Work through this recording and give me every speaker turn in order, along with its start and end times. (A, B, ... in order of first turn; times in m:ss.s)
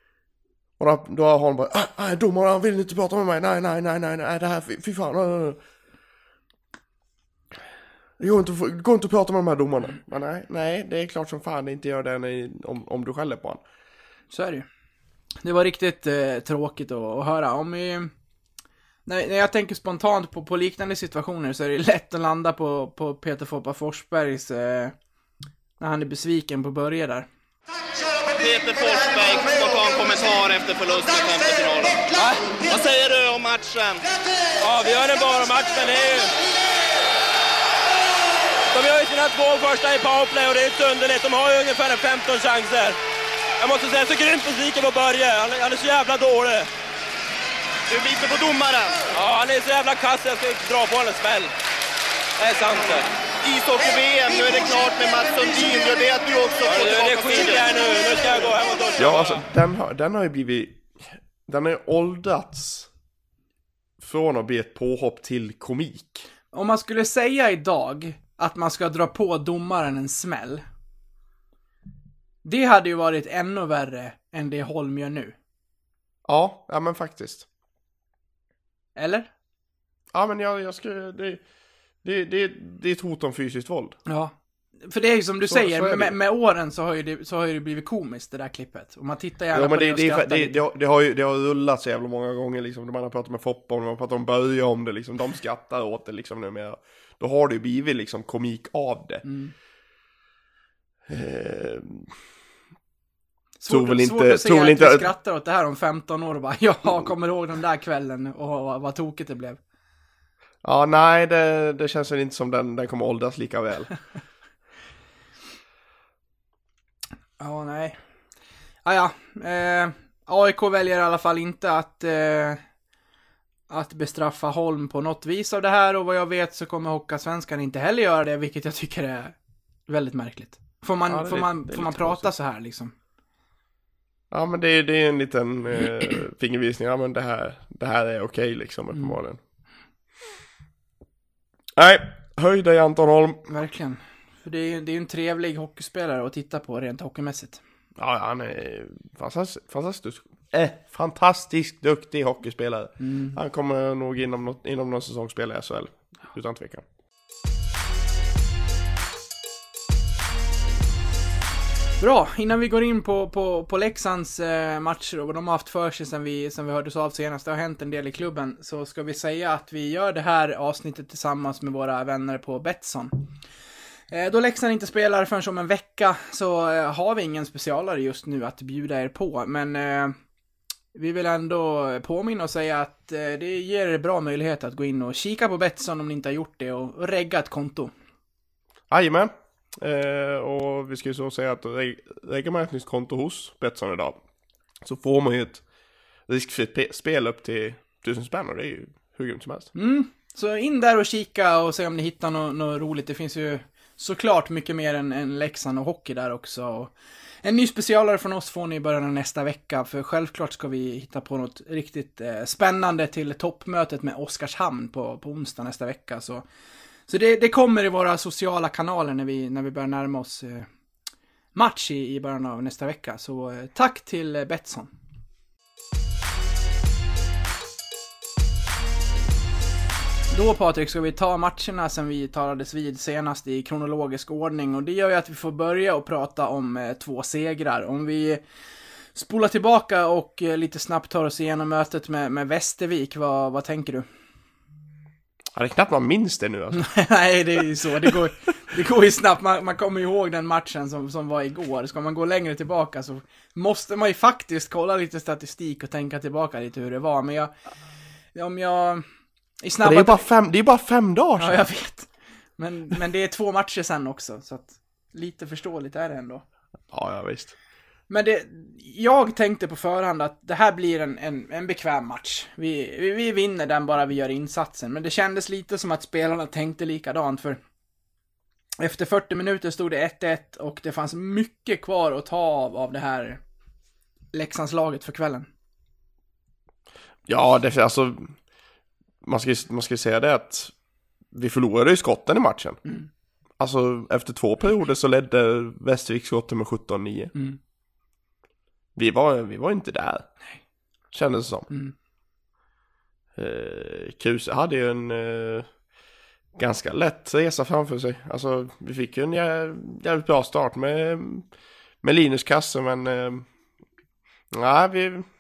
0:00.8-0:05.6 A
0:08.2-0:13.6 A
0:14.3-0:14.6 B
0:15.4-0:18.1 B
0:19.1-0:24.9 B
0:25.8-0:27.3 B
0:28.4-0:32.1 C
0:32.7-0:34.1 C
0:34.6-0:36.3 D
0:38.7-0:43.0 D
0:43.6-0:46.7 D
0:47.9-0:49.0 C
0:49.1-0:51.5 D
0:52.4-0:53.1 D
0:53.4-0:57.6 C
0:56.7-0:59.4 D
0:59.0-1:02.9 A
1:04.0-1:06.3 A
1:06.5-1:10.6 B
1:12.4-1:15.3 B
1:16.3-1:17.5 A
1:19.0-1:19.3 B
1:20.1-1:21.4 A
1:22.0-1:24.0 A
1:24.1-1:30.6 B
1:25.4-1:26.2 A
1:29.5-1:39.2 A
1:39.2-1:39.5 B
1:41.1-1:42.1 A
1:43.6-1:49.6 B
1:43.7-1:45.1 A
1:50.6-1:53.9 A
1:57.4-1:58.0 B
1:58.8-2:02.6 B
2:03.7-2:09.4 B
2:09.9-2:12.9 B
2:11.1-2:12.3 A
2:14.3-2:19.4 A
2:21.8-2:23.4 A
2:23.5-2:27.6 B
2:28.0-2:36.8 A
2:33.0-2:33.4 B
2:42.0-2:53.3 B
2:54.1-3:00.2 B
3:00.9-3:07.9 B
3:08.9-3:14.2 A
3:14.8-3:15.6 A
3:16.3-3:19.7 A
3:19.8-3:26.9 B
3:27.4-3:36.4 B
3:37.1-3:40.7 B
3:41.5-3:44.9 B
3:50.3-3:58.4 B
3:59.1-4:04.1 B
4:05.6-4:07.0 A
4:06.7-4:17.5 B
4:18.4-4:19.0 B
4:19.6-4:20.2 B
4:19.8-4:21.6 A
4:21.4-4:26.4 B
4:26.9-4:27.6 A
4:28.1-4:37.6 B
4:38.8-4:43.4 B
4:44.3-4:45.5 B
4:47.3-4:48.4 A
4:49.2-4:50.7 A
4:51.3-4:52.8 A
4:53.6-4:57.3 A
4:59.0-5:00.3 A
5:01.1-5:01.7 A
5:03.4-5:05.7 A
5:06.6-5:11.5 A
5:12.0-5:13.5 A
5:14.5-5:15.3 A